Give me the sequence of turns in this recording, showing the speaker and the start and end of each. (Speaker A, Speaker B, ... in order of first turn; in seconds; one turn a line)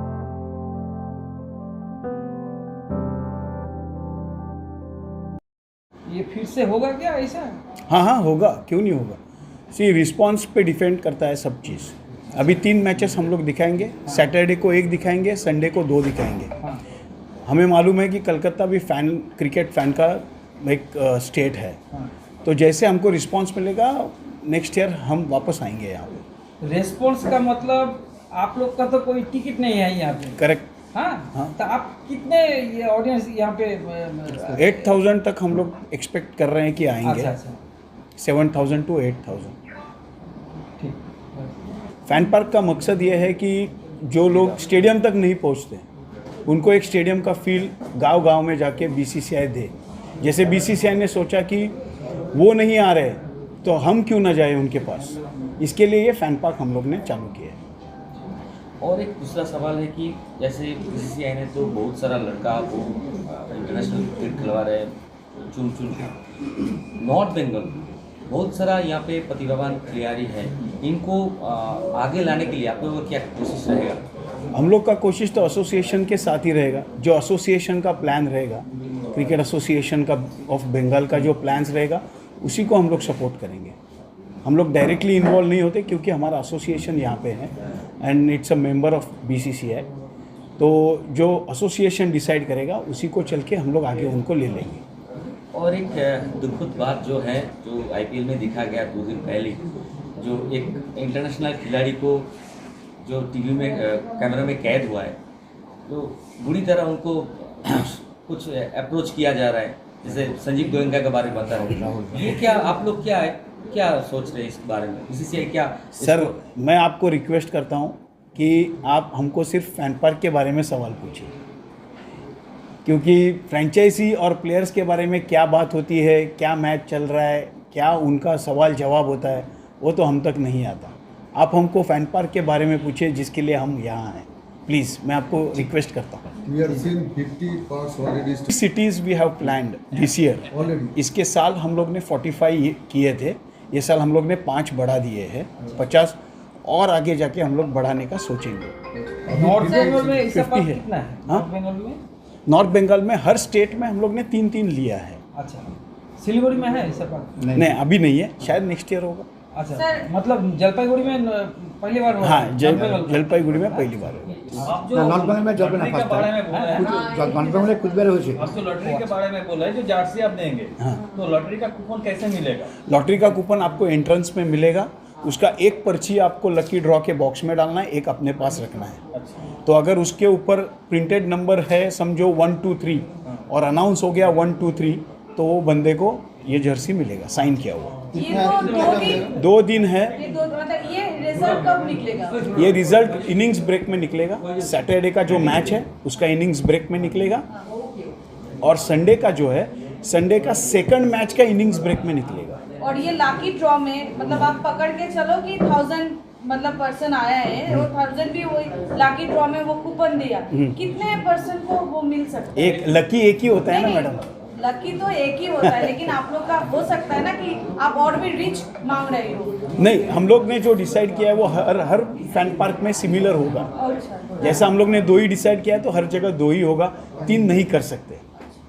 Speaker A: 6.1-7.6
Speaker B: 7.9-9.2
Speaker B: 9.7-16.5
Speaker B: 17.4-21.8
Speaker B: 22.4-26.2
Speaker A: 26.6-30.4
Speaker B: 30.4-30.7
Speaker A: 30.9-34.8
Speaker B: 34.5-37.3
Speaker A: 37.0-37.6
Speaker B: 38.2-39.5
Speaker A: 40.8-41.5
Speaker B: 42.1-45.8
Speaker B: 46.5-51.7
Speaker B: 52.3-57.6
Speaker C: 58.8-64.9
Speaker C: 65.5-66.1
Speaker C: 67.0-67.8
Speaker C: 68.3-74.0
Speaker B: 74.5-83.7
Speaker B: 84.4-89.9
Speaker B: 90.6-94.8
Speaker C: 95.5-99.6
Speaker C: 100.2-102.3
Speaker C: 103.0-105.2
Speaker C: 105.8-116.3
Speaker B: 116.0-121.3
Speaker B: 122.8-136.2
Speaker D: 136.4-138.5
Speaker B: 138.5-148.7
Speaker D: 140.5-140.9
Speaker D: 149.1-150.3
Speaker A: 149.3-152.0
Speaker B: 150.3-151.4
Speaker B: 152.5-155.2
Speaker A: 155.3-157.4
Speaker E: 157.4-157.7
Speaker B: 157.5-159.3
Speaker A: 159.5-163.9
Speaker B: 162.2-164.7
Speaker F: 164.7-166.9
Speaker E: 164.9-168.4
Speaker A: 166.4-166.9
Speaker G: 166.8-167.2
Speaker F: 168.4-172.7
Speaker A: 168.4-169.2
Speaker B: 170.8-171.0
Speaker B: 172.8-179.0
Speaker B: 179.6-188.0
Speaker G: 188.1-189.2
Speaker D: 188.1-189.3
Speaker F: 188.3-189.3
Speaker B: 189.2-190.2
Speaker G: 190.2-192.4
Speaker B: 192.5-197.5
Speaker B: 198.6-202.6
Speaker G: 202.8-212.5
Speaker B: 210.5-210.8
Speaker B: 212.5-214.3
Speaker G: 213.7-219.5
Speaker B: 215.6-216.0
Speaker B: 219.8-223.7
Speaker G: 223.8-224.4
Speaker B: 224.4-228.2